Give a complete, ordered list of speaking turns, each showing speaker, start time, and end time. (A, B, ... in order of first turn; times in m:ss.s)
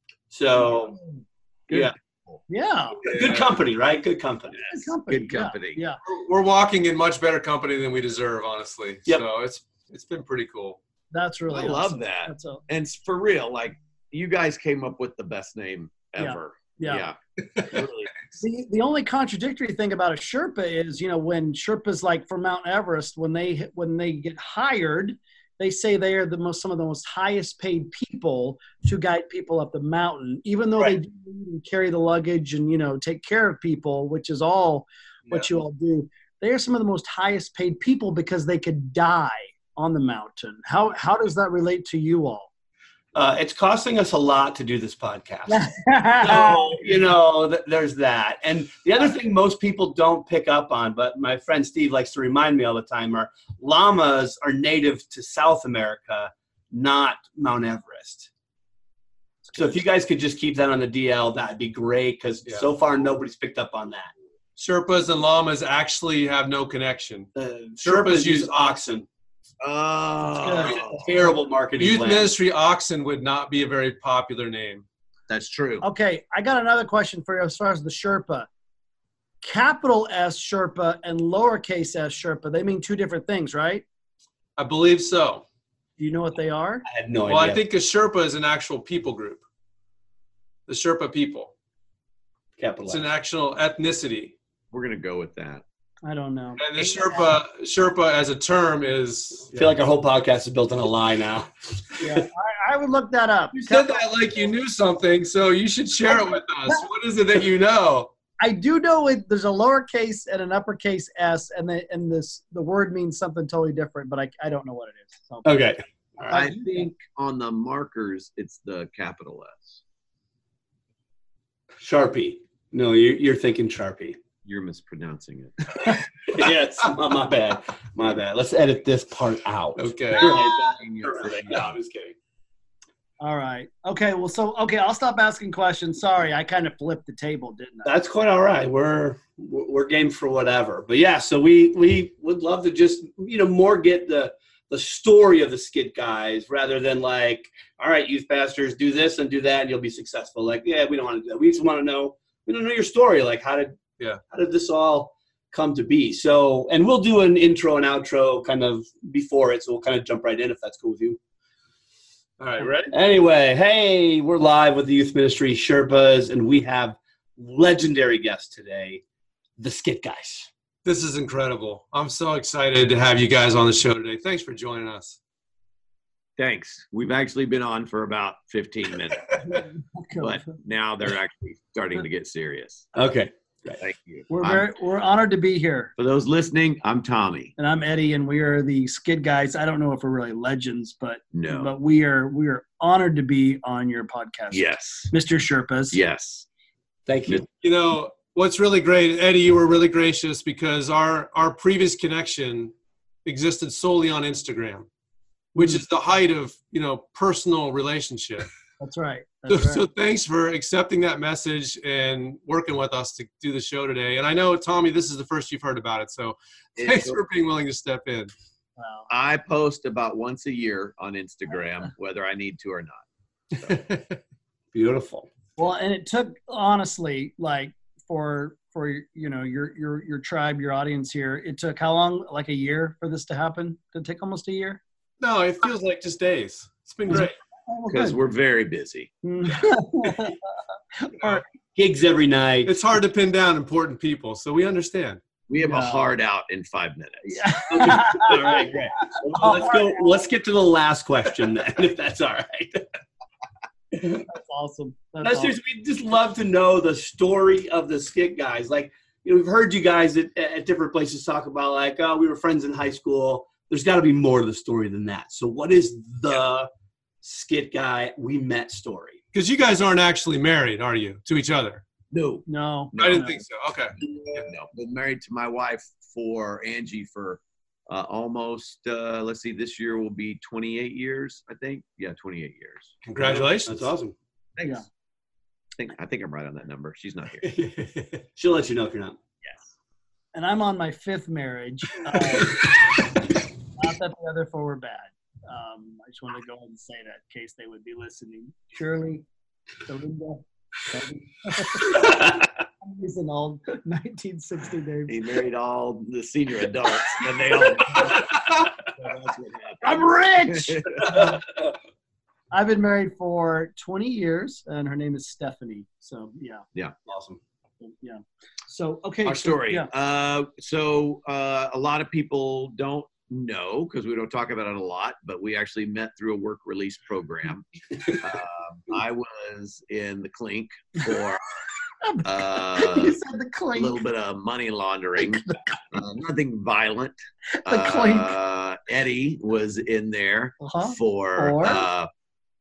0:00.3-0:01.0 A
0:01.7-0:02.4 B
0:02.5-0:03.0 C
0:03.0-0:04.7 A
0:03.0-0:03.5 D
0:04.7-0:06.0 C
0:05.1-0:05.8 B
0:06.0-0:10.8 D
0:11.1-0:12.6 C
0:11.5-0:18.1 B
0:16.2-0:17.0 C
0:18.3-0:42.5 C
0:43.1-0:45.6 A
0:45.5-0:46.9 C
0:46.2-0:58.3 A
0:59.5-1:04.1 A
1:04.6-1:07.3 D
1:07.4-1:09.0 A
1:07.8-1:08.6 D
1:09.6-1:11.0 B
1:10.4-1:11.4 C
1:10.9-1:12.3 A
1:11.8-1:14.8 D
1:15.3-1:15.8 B
1:15.8-1:18.5 C
1:19.4-1:23.8 C
1:24.6-1:25.4 D
1:26.0-1:26.8 C
1:26.9-1:27.6 A
1:27.3-1:29.4 D
1:30.7-1:31.5 D
1:32.6-1:33.1 A
1:32.9-1:34.3 D
1:34.7-1:35.6 B
1:36.0-1:37.4 C
1:36.6-1:39.7 D
1:39.5-1:42.3 A
1:42.0-1:44.5 C
1:43.5-1:48.1 D
1:46.0-1:46.8 C
1:48.4-1:55.5 C
1:55.4-1:56.3 A
1:56.3-1:56.9 C
1:56.3-1:59.8 B
2:01.8-2:04.2 A
2:04.4-2:05.8 B
2:06.3-2:12.1 A
2:09.8-2:10.5 D
2:10.2-2:11.7 B
2:13.2-2:17.9 C
2:17.8-2:41.2 A
2:42.4-2:42.9 D
2:42.9-2:49.0 A
2:49.6-2:50.5 A
2:50.8-2:55.2 D
2:56.4-2:59.4 B
2:59.5-3:00.4 C
3:00.2-3:02.8 B
3:02.9-3:03.8 A
3:03.8-3:04.7 B
3:04.3-3:05.9 C
3:06.0-3:07.5 B
3:07.6-3:16.0 C
3:11.3-3:11.7 B
3:14.5-3:15.1 B
3:15.9-3:16.4 B
3:17.1-3:17.4 A
3:17.6-3:22.7 D
3:23.2-3:24.9 D
3:25.5-3:28.5 D
3:25.6-3:25.8 C
3:28.8-3:29.8 C
3:29.5-3:38.3 D
3:36.8-3:37.2 B
3:38.8-3:39.0 C
3:39.1-3:43.8 B
3:43.7-3:44.2 D
3:44.7-3:45.3 A
3:45.6-3:54.8 C
3:55.2-3:57.4 D
3:57.1-3:58.2 C
3:57.9-3:59.1 B
3:59.2-4:00.4 C
4:01.0-4:01.4 C
4:01.7-4:02.7 A
4:02.6-4:05.2 D
4:05.5-4:07.4 B
4:05.6-4:06.0 C
4:07.3-4:08.6 C
4:07.7-4:12.8 A
4:09.4-4:10.0 C
4:14.1-4:15.5 C
4:15.2-4:26.7 A
4:27.2-4:29.2 A
4:29.3-4:31.8 D
4:32.1-4:33.3 B
4:32.5-4:33.4 C
4:33.0-4:33.9 D
4:34.3-4:42.9 B
4:43.1-4:43.9 D
4:43.2-4:44.1 A
4:44.6-4:44.8 B
4:45.8-4:47.4 B
4:47.4-4:49.2 A
4:50.3-4:52.6 C
4:53.8-4:59.2 C
4:59.8-5:05.1 C
5:05.1-5:11.3 B
5:09.8-5:11.4 C
5:12.5-5:16.6 C
5:17.1-5:17.4 A
5:17.8-5:19.9 C
5:19.2-5:31.4 B
5:32.2-5:33.2 B
5:32.8-5:34.0 C
5:33.7-5:42.1 B
5:37.7-5:38.3 C
5:40.6-5:41.8 C